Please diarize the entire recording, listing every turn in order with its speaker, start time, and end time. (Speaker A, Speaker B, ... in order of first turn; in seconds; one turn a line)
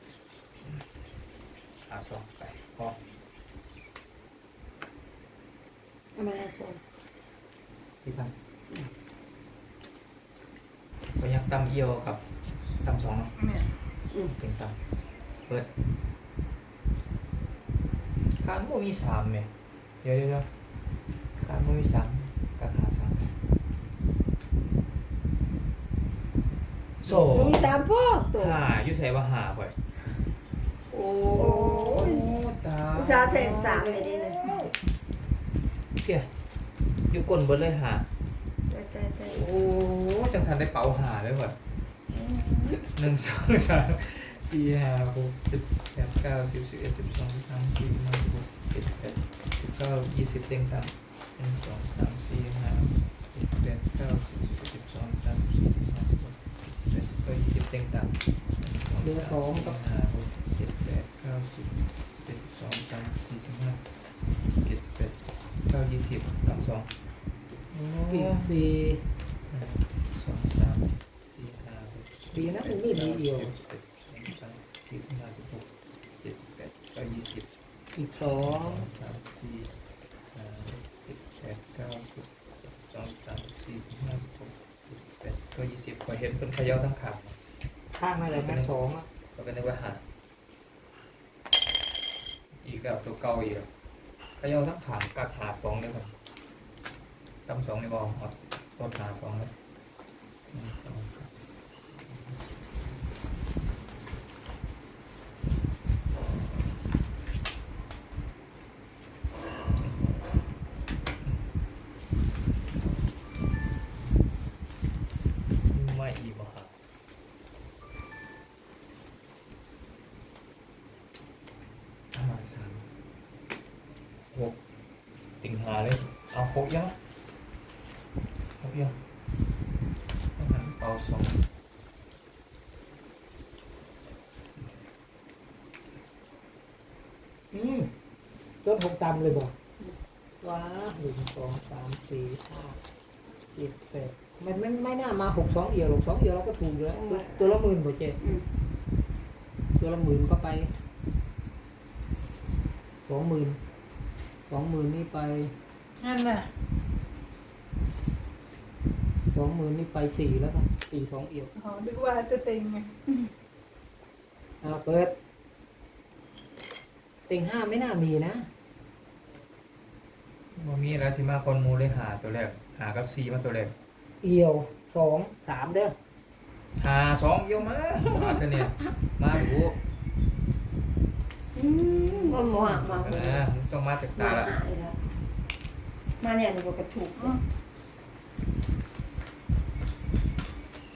Speaker A: 1.9-3.0
Speaker B: 6.1-6.8
Speaker A: 8.0-8.3
Speaker A: 11.2-12.2
Speaker A: 12.8-13.3
Speaker C: 13.4-13.7
Speaker B: 14.1-14.3
Speaker A: 14.3-14.8
Speaker A: 18.3-20.5
Speaker A: 21.4-23.3
Speaker A: 27.0-27.7
Speaker B: 27.2-28.6
Speaker A: 28.4-29.8
Speaker A: 30.9-34.7
Speaker B: 31.3-32.3
Speaker B: 32.9-34.5
Speaker A: 36.0-36.3
Speaker A: 37.1-38.1
Speaker B: 38.7-39.5
Speaker A: 39.3-41.5
Speaker B: 42.1-42.8
Speaker A: 42.9-63.9
Speaker D: 59.0-59.8
Speaker A: 64.5-66.9
Speaker D: 67.7-69.1
Speaker A: 67.9-68.5
Speaker A: 69.5-75.7
Speaker D: 72.3-73.5
Speaker A: 76.2-77.5
Speaker D: 77.9-78.9
Speaker A: 78.4-79.7
Speaker A: 80.3-87.3
Speaker D: 87.9-89.1
Speaker A: 88.3-88.7
Speaker A: 89.3-90.0
Speaker A: 92.5-93.7
Speaker A: 94.4-96.1
Speaker A: 97.5-99.5
Speaker A: 100.5-101.3
Speaker A: 102.0-102.4
Speaker A: 109.8-110.3
Speaker A: 115.7-116.7
Speaker A: 122.1-122.9
Speaker A: 124.3-124.6
Speaker A: 125.4-127.0
Speaker A: 128.6-129.0
Speaker A: 130.4-131.4
Speaker D: 137.5-137.9
Speaker D: 138.6-139.5
Speaker D: 140.4-142.8
Speaker D: 143.5-148.2
Speaker B: 146.9-147.6
Speaker B: 148.2-148.5
Speaker D: 149.8-150.7
Speaker D: 153.0-153.6
Speaker D: 154.4-155.5
Speaker C: 156.0-156.5
Speaker D: 159.2-161.5
Speaker C: 161.5-163.3
Speaker D: 164.6-165.2
Speaker D: 167.3-168.5
Speaker A: 170.5-173.7
Speaker D: 174.2-175.9
Speaker A: 176.8-179.8
Speaker B: 181.5-183.4
Speaker A: 182.4-184.5
Speaker B: 184.2-185.0
Speaker B: 186.2-187.4